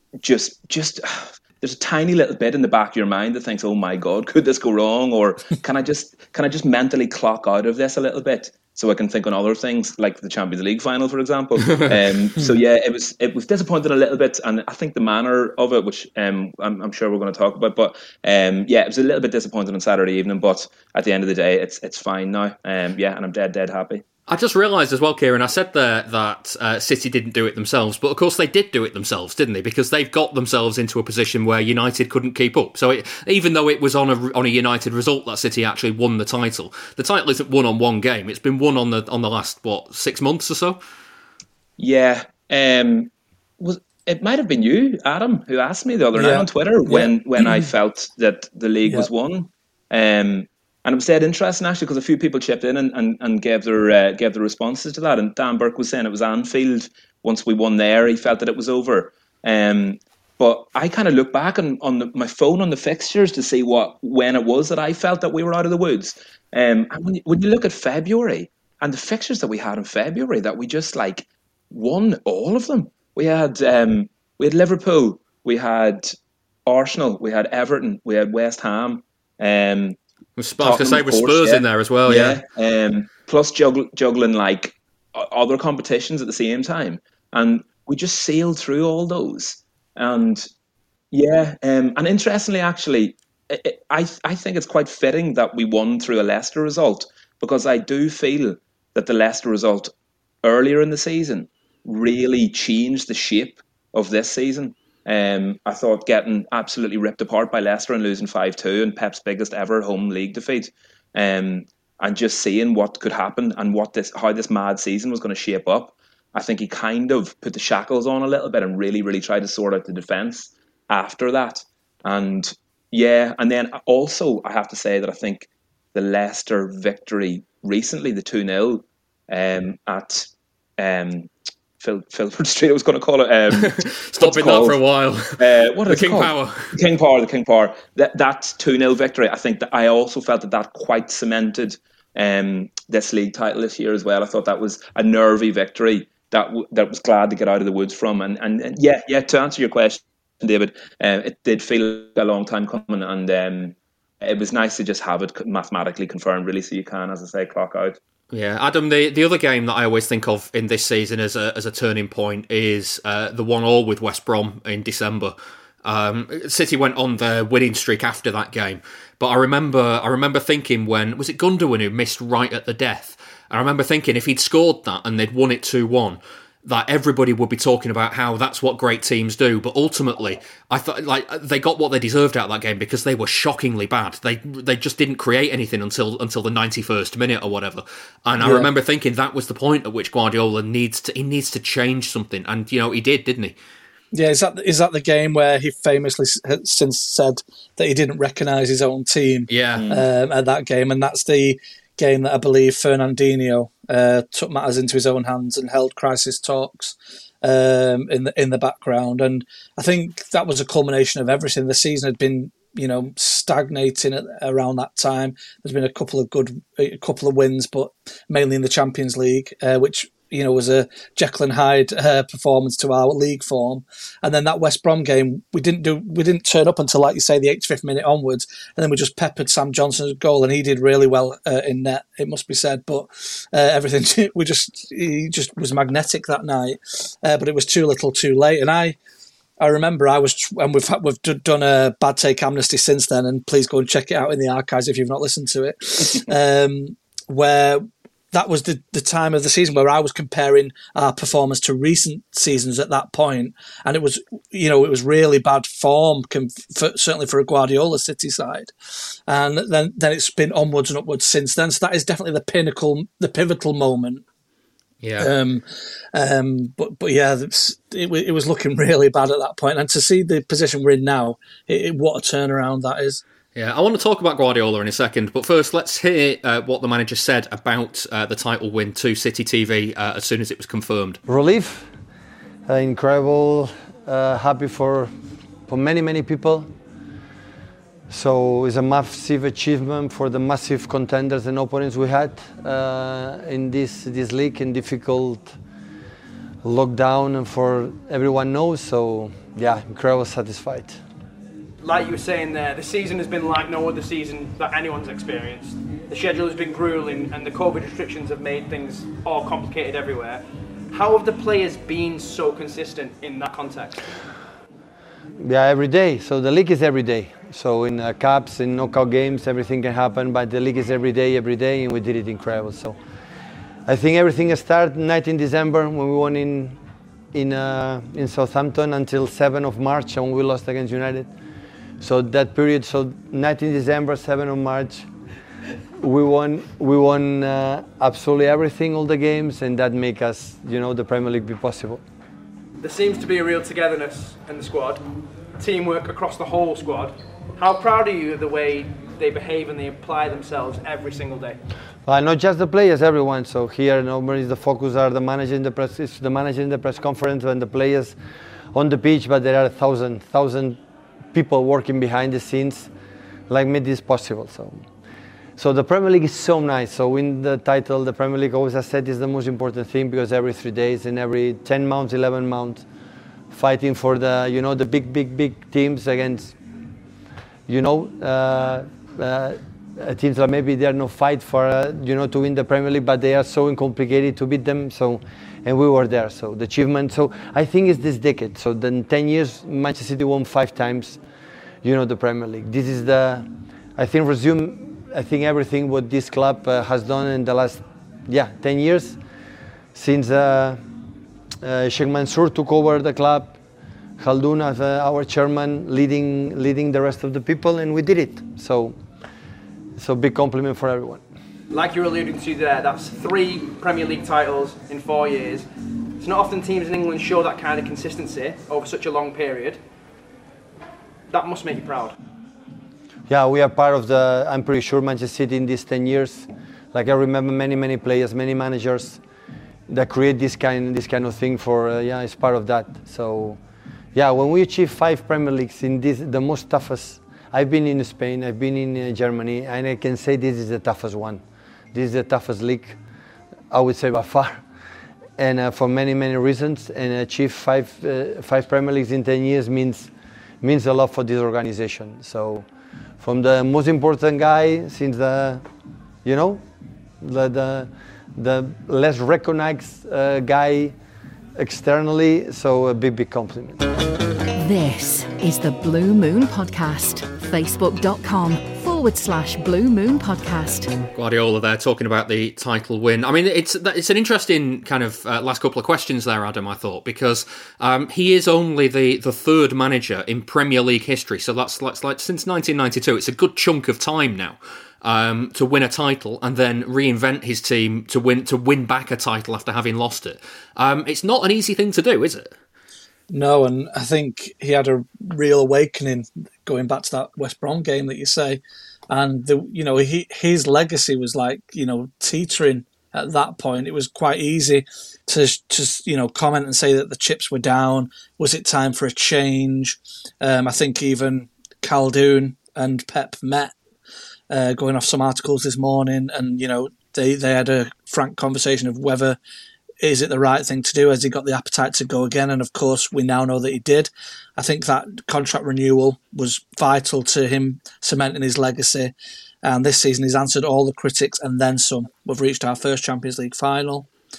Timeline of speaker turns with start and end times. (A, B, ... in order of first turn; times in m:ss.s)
0:00.2-0:24.0 A
0:24.3-0:40.8 B
0:41.8-1:16.1 A
0:46.1-0:47.7 C
1:16.7-1:20.0 A
1:20.4-1:22.4 B
1:20.6-1:30.5 A
1:31.1-1:39.9 A
1:40.4-2:14.8 A
2:13.7-2:16.7 B
2:15.4-2:38.0 A
2:38.3-3:13.6 B
3:08.4-3:08.7 C
3:14.1-3:59.0 C
3:19.5-3:19.8 B
3:19.8-3:20.0 A
3:59.6-4:18.7 C
4:19.3-4:24.2 C
4:25.0-4:25.3 B
4:25.2-4:33.2 C
4:33.5-4:41.2 B
4:41.3-4:41.9 D
4:42.7-4:45.1 D
4:45.7-4:46.7 D
4:48.1-4:55.5 D
4:56.6-5:01.0 D
5:01.8-5:14.0 E
5:15.4-5:23.0 D
5:23.8-5:26.8 D
5:27.3-5:31.3 D
5:32.0-5:35.1 D
5:36.0-5:42.0 D
5:42.8-5:45.0 E
5:45.6-5:51.6 E
5:52.0-5:58.2 D
5:58.7-6:00.8 D
6:01.3-6:02.9 D
6:03.5-6:04.9 D
6:05.6-6:12.8 D
6:13.5-6:16.6 D
6:17.7-6:31.2 D
6:31.8-6:39.2 D
6:39.9-6:40.8 D
6:41.6-6:43.6 D
6:44.2-6:49.0 D
6:50.0-6:51.2 D
6:51.7-6:55.6 E
6:56.2-6:59.8 E
7:01.3-7:02.2 E
7:03.3-7:09.2 D
7:09.9-7:13.6 D
7:14.1-7:23.0 D
7:23.7-7:24.6 D
7:25.4-7:32.7 D
7:33.2-7:35.6 D
7:36.2-7:36.6 D
7:37.2-7:41.0 D
7:41.6-7:43.8 D
7:44.6-7:50.9 F
7:51.1-8:12.5 B
8:13.3-8:33.7 C
8:34.5-8:39.4 C
8:40.0-8:49.1 C
8:49.6-8:54.1 C